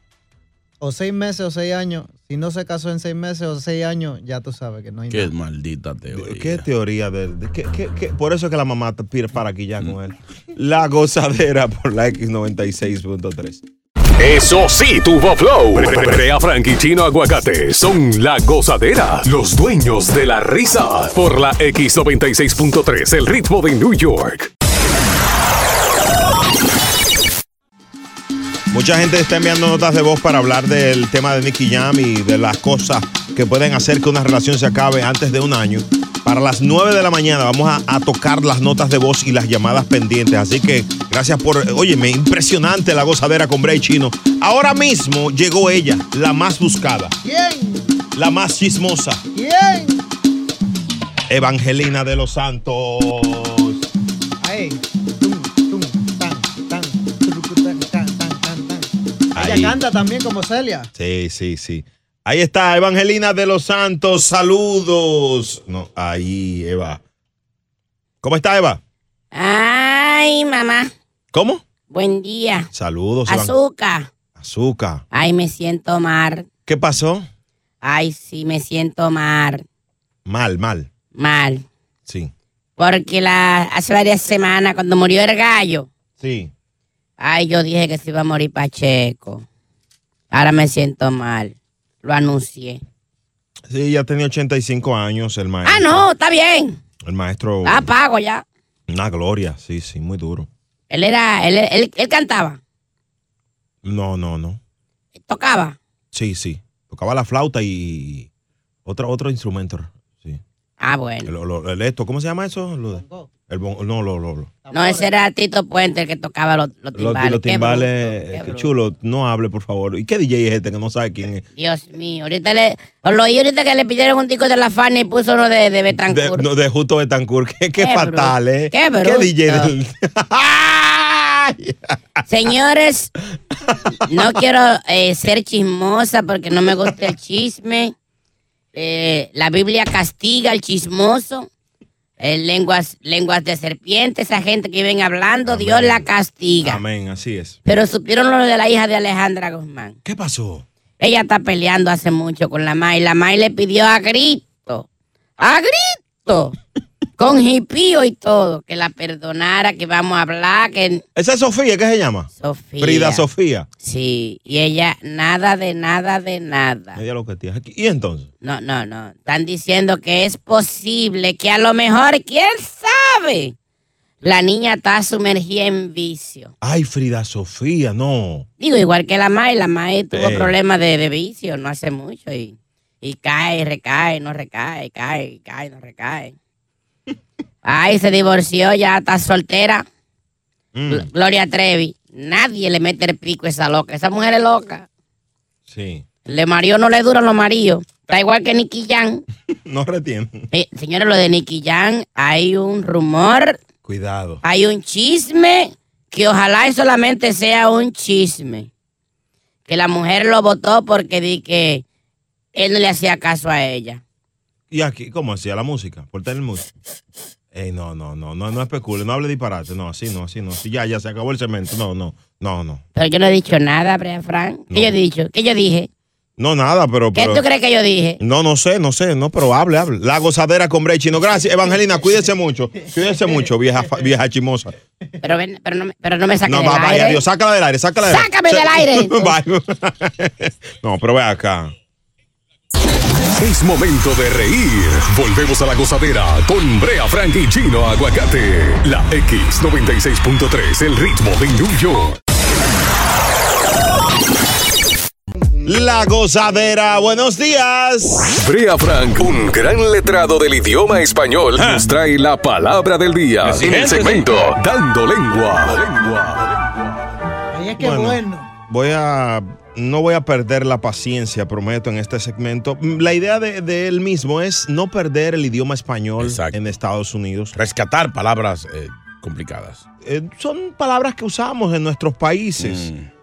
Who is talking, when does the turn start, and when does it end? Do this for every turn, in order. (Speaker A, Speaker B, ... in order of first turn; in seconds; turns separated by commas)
Speaker A: 0.8-5.3, Speaker B: 5.1-6.6, Speaker C: 6.1-13.6, Speaker D: 14.2-24.5, Speaker C: 28.7-47.1, Speaker A: 47.2-47.8, Speaker C: 48.1-49.2, Speaker A: 49.3-50.0, Speaker C: 51.3-53.9, Speaker A: 54.4-60.9, Speaker C: 59.3-59.8, Speaker C: 60.9-67.0, Speaker C: 68.2-68.8, Speaker E: 69.3-70.9, Speaker C: 71.3-71.6, Speaker E: 71.9-72.7, Speaker C: 72.7-73.5, Speaker E: 73.3-74.1, Speaker C: 74.3-75.0, Speaker E: 75.1-76.5, Speaker C: 76.7-77.3, Speaker E: 77.8-79.6, Speaker C: 80.2-80.9, Speaker E: 81.2-81.6, Speaker C: 82.1-82.3, Speaker E: 82.8-85.9, Speaker C: 86.2-86.5, Speaker E: 87.2-89.4, Speaker E: 90.3-92.8, Speaker C: 93.7-96.0, Speaker E: 95.6-96.8, Speaker C: 97.0-97.9, Speaker E: 97.6-98.4, Speaker C: 98.9-100.5, Speaker E: 100.9-102.6, Speaker C: 103.8-104.6, Speaker E: 105.2-105.8, Speaker C: 106.1-108.3, Speaker C: 108.8-110.4, Speaker E: 110.8-111.3, Speaker C: 111.2-114.5, Speaker A: 112.9-113.3, Speaker A: 114.6-115.1, Speaker E: 114.7-118.7, Speaker C: 117.0-121.4, Speaker E: 121.5-126.4, Speaker C: 126.1-131.9, Speaker E: 127.8-129.7, Speaker E: 132.3-133.1, Speaker E: 134.1-137.9, Speaker E: 138.7-141.5, Speaker E: 142.2-146.8, Speaker C: 145.5-146.1, Speaker C: 146.6-147.6, Speaker E: 147.7-149.9, Speaker C: 150.0-150.7, Speaker E: 151.0-154.8, Speaker E: 155.4-156.6, Speaker E: 157.2-161.0, Speaker C: 161.2-163.7, Speaker E: 162.4-163.2, Speaker E: 163.8-167.0, Speaker C: 166.9-168.3, Speaker E: 168.4-173.5, Speaker E: 174.2-176.5, Speaker C: 176.6-178.5, Speaker E: 178.6-186.3, Speaker C: 180.1-180.5, Speaker E: 187.6-189.8, Speaker C: 190.7-191.1, Speaker E: 190.9-194.9, Speaker C: 195.7-196.1, Speaker E: 196.3-199.2, Speaker C: 199.5-200.5, Speaker E: 200.5-203.6, Speaker C: 203.8-204.4, Speaker E: 204.4-208.7, Speaker E: 209.7-211.8, Speaker E: 212.5-214.0, Speaker C: 214.7-216.7, Speaker C: 217.5-222.8, Speaker E: 222.9-225.9, Speaker C: 226.4-227.4, Speaker E: 227.1-228.2, Speaker C: 228.2-234.7, Speaker E: 235.2-237.2, Speaker C: 236.4-241.7, Speaker E: 238.1-239.3, Speaker D: 243.4-252.2, Speaker C: 255.6-258.2, Speaker D: 258.3-266.5, Speaker B: 261.6-261.9, Speaker B: 263.4-264.5, Speaker A: 267.5-268.5, Speaker C: 267.8-277.5, Speaker B: 276.2-276.6, Speaker B: 277.5-279.8, Speaker C: 280.0-282.9, Speaker B: 282.6-283.1